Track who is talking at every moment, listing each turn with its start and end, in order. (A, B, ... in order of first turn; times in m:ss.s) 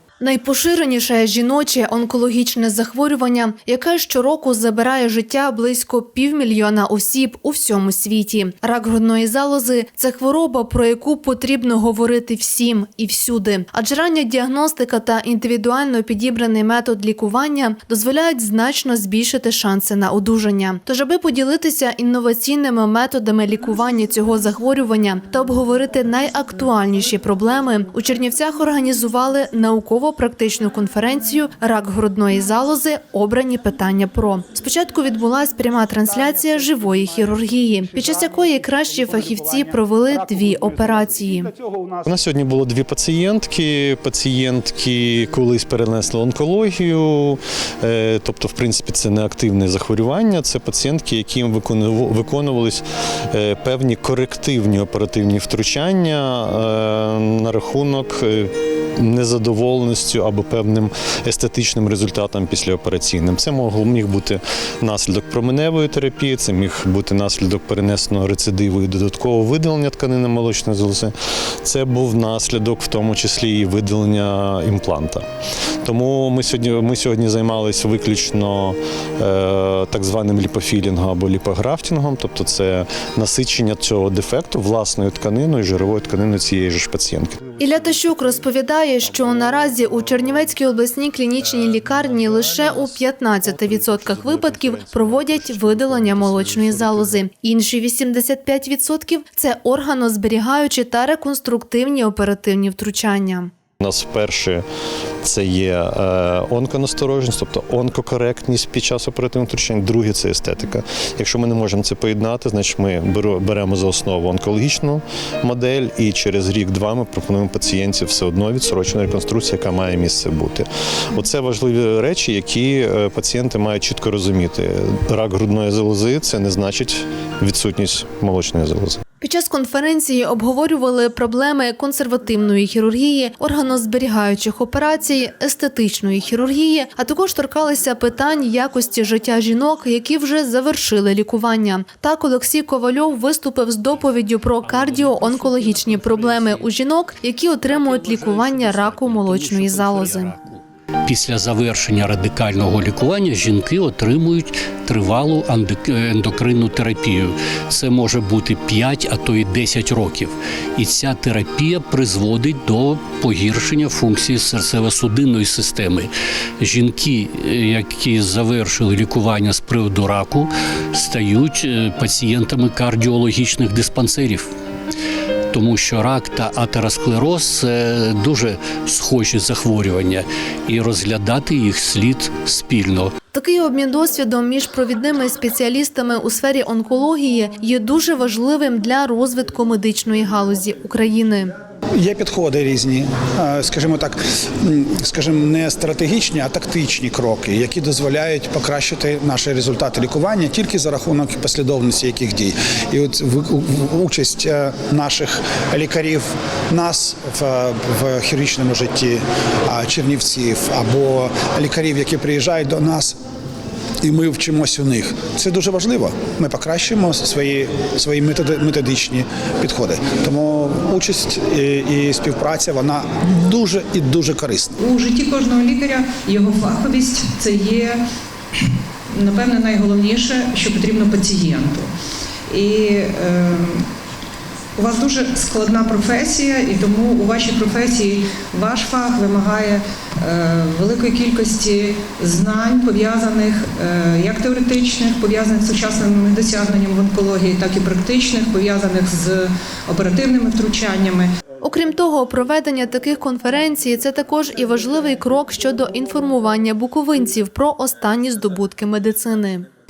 0:00.2-0:41.5 A
0:42.1-1:11.1 B
1:11.6-1:15.2 B
1:15.8-1:27.4 B
1:27.6-1:43.5 A
1:43.8-1:44.6 B
1:45.2-2:09.0 B
2:09.2-2:30.4 A
2:25.0-2:26.7 C
2:27.8-2:54.5 C
2:55.5-3:03.1 C
3:03.3-3:11.5 A
3:12.0-3:33.2 D
3:34.0-3:44.7 D
3:44.8-3:48.0 E
3:48.6-3:51.9 E
3:52.5-3:53.8 E
3:54.8-4:11.3 E
4:11.6-4:19.7 A